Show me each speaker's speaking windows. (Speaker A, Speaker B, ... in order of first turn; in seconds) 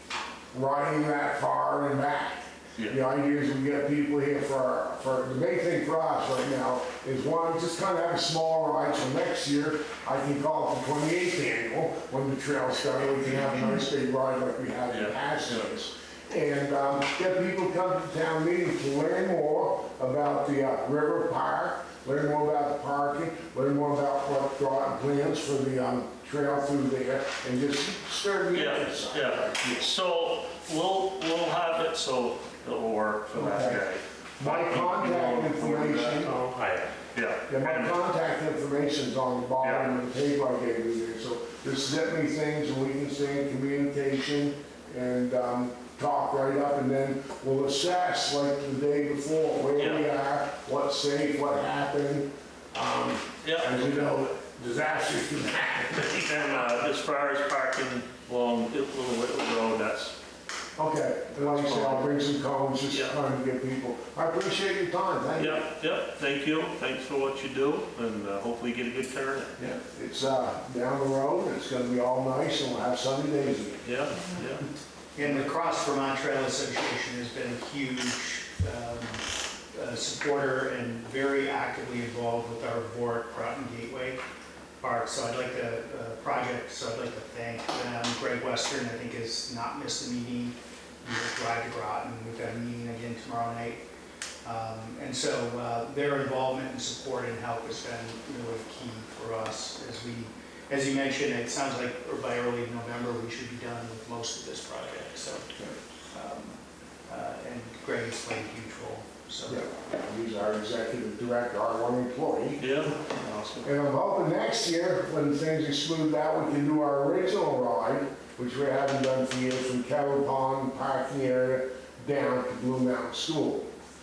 Speaker A: 0.5-29.9, 33.3-33.9, 34.4-36.4, 37.5-56.2, 60.8-65.7, 69.6-73.8, 109.5-112.8, 113.6-123.7
Speaker B: 14.9-15.5, 28.5-38.0, 39.6-39.9, 49.8-50.1, 53.4-54.0, 55.9-60.2, 61.3-62.1, 62.9-63.2, 65.4-69.6, 73.8-74.7, 112.6-113.7
Speaker C: 75.2-84.2, 84.8-93.8, 94.4-105.5, 106.1-109.7